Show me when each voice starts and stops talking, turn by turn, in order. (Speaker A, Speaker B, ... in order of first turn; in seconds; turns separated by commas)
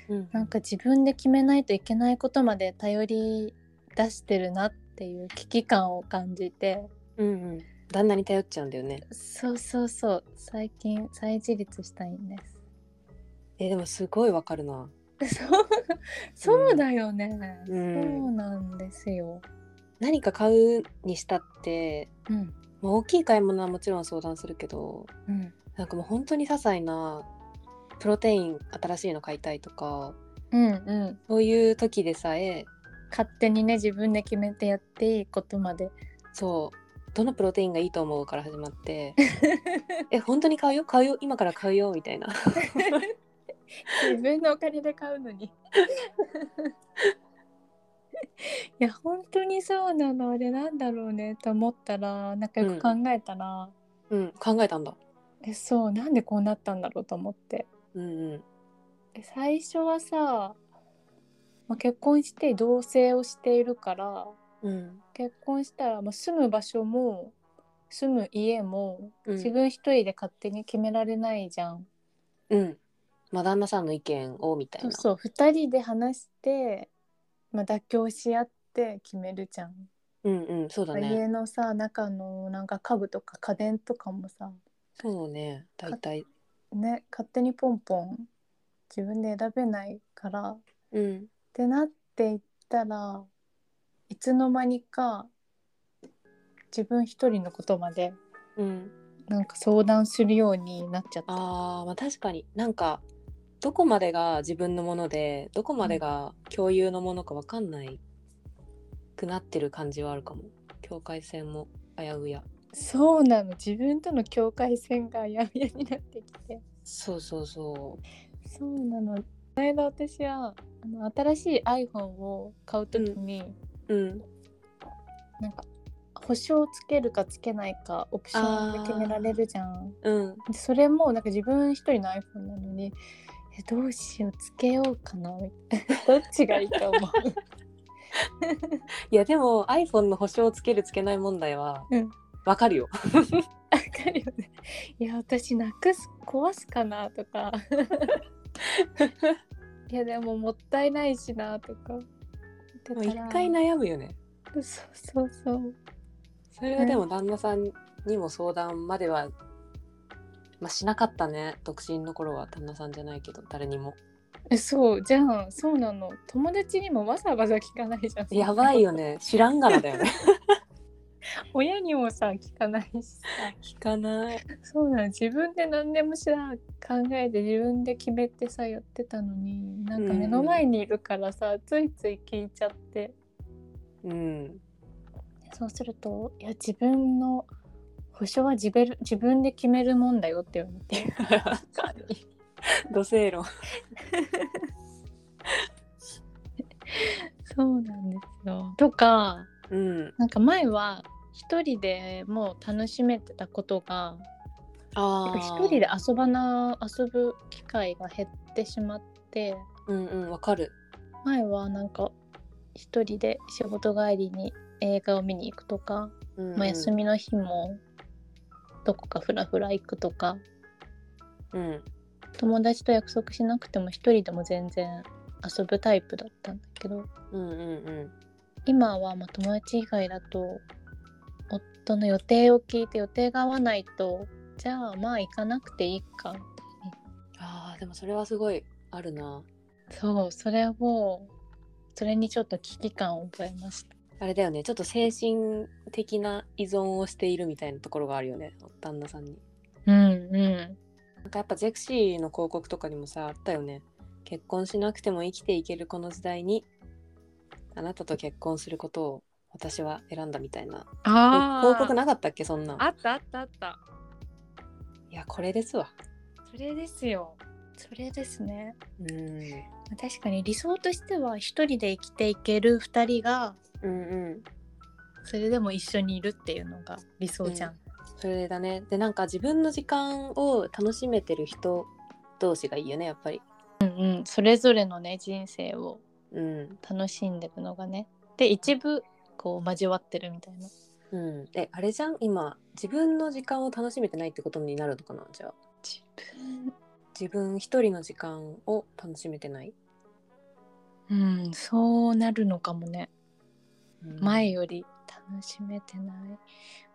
Speaker A: 0.1-0.5, Speaker B: 0.3-6.9, Speaker A: 7.2-9.1, Speaker B: 9.1-12.5, Speaker A: 13.6-14.9, Speaker B: 15.2-19.4, Speaker A: 16.4-16.8, Speaker A: 17.7-18.3, Speaker A: 20.0-22.1, Speaker B: 22.3-22.5, Speaker A: 22.8-25.1, Speaker B: 25.3-25.5, Speaker A: 25.8-27.3, Speaker A: 28.0-30.2, Speaker B: 30.5-31.2, Speaker A: 31.3-32.7, Speaker B: 33.1-36.0, Speaker A: 36.3-39.2, Speaker B: 39.4-39.9, Speaker A: 40.1-43.0, Speaker B: 42.7-43.1, Speaker B: 43.9-45.6, Speaker B: 46.2-46.7, Speaker B: 48.4-53.7, Speaker A: 52.6-52.9, Speaker A: 54.1-55.0, Speaker B: 55.4-57.7, Speaker A: 57.9-58.4, Speaker B: 59.1-60.6, Speaker B: 61.7-64.4, Speaker A: 64.6-65.0, Speaker B: 65.2-67.3, Speaker B: 67.9-71.9, Speaker A: 69.3-69.5, Speaker A: 72.5-72.8, Speaker A: 73.3-75.0, Speaker B: 74.8-76.9, Speaker B: 77.5-79.9, Speaker A: 80.2-81.2, Speaker B: 80.9-84.6, Speaker A: 85.0-86.3, Speaker B: 86.7-88.3, Speaker B: 88.9-90.6, Speaker A: 90.9-91.3, Speaker B: 91.5-93.3, Speaker B: 94.1-95.3, Speaker B: 96.7-98.2, Speaker A: 98.6-98.9, Speaker B: 99.3-101.4, Speaker A: 101.3-103.0, Speaker A: 103.6-108.0, Speaker A: 109.2-112.5, Speaker B: 112.7-116.6, Speaker A: 116.9-118.0, Speaker B: 118.5-123.6, Speaker A: 122.9-123.2, Speaker A: 123.9-124.2, Speaker B: 125.4-133.0, Speaker A: 128.3-129.3, Speaker A: 130.0-130.4, Speaker B: 133.6-137.4, Speaker B: 138.4-138.8, Speaker A: 139.1-141.9, Speaker A: 142.4-143.3, Speaker B: 143.7-148.2, Speaker A: 149.0-149.3, Speaker B: 149.9-152.0, Speaker B: 152.8-153.6, Speaker A: 152.9-154.2, Speaker B: 154.5-155.8, Speaker A: 156.6-159.3, Speaker B: 156.8-157.0, Speaker A: 160.6-164.0, Speaker B: 164.5-168.8, Speaker A: 168.3-170.1, Speaker B: 171.5-173.5, Speaker A: 173.5-174.4, Speaker B: 174.6-183.2, Speaker A: 180.0-180.6, Speaker A: 184.0-184.6, Speaker B: 185.5-187.5, Speaker B: 188.1-191.2, Speaker A: 191.2-191.6, Speaker B: 191.7-192.2, Speaker A: 192.9-193.5, Speaker B: 194.0-194.6, Speaker B: 196.9-199.5, Speaker A: 199.7-200.2, Speaker B: 200.2-204.3, Speaker A: 204.9-205.9, Speaker B: 205.3-209.7, Speaker A: 209.9-210.8, Speaker B: 211.2-212.1, Speaker B: 212.8-217.8, Speaker A: 216.4-216.9, Speaker B: 218.8-220.4, Speaker A: 221.5-221.9, Speaker B: 222.4-227.1, Speaker A: 227.3-228.1, Speaker B: 228.7-230.6, Speaker B: 231.5-236.9, Speaker A: 237.4-239.5, Speaker B: 239.9-241.3, Speaker B: 241.9-243.9, Speaker A: 244.2-249.4, Speaker B: 249.9-250.8, Speaker A: 251.2-256.7, Speaker A: 257.7-262.8, Speaker B: 261.1-261.9, Speaker B: 262.8-263.8, Speaker A: 265.1-265.9, Speaker B: 266.5-268.8, Speaker A: 269.0-269.7, Speaker B: 269.9-273.6, Speaker A: 273.8-274.4, Speaker B: 275.2-277.8, Speaker A: 277.4-283.4, Speaker B: 283.8-286.0, Speaker A: 286.3-286.8, Speaker B: 286.8-290.7, Speaker A: 291.1-295.6, Speaker B: 295.8-296.7, Speaker A: 297.2-299.7, Speaker B: 301.1-303.1, Speaker A: 304.0-304.5, Speaker B: 304.2-306.4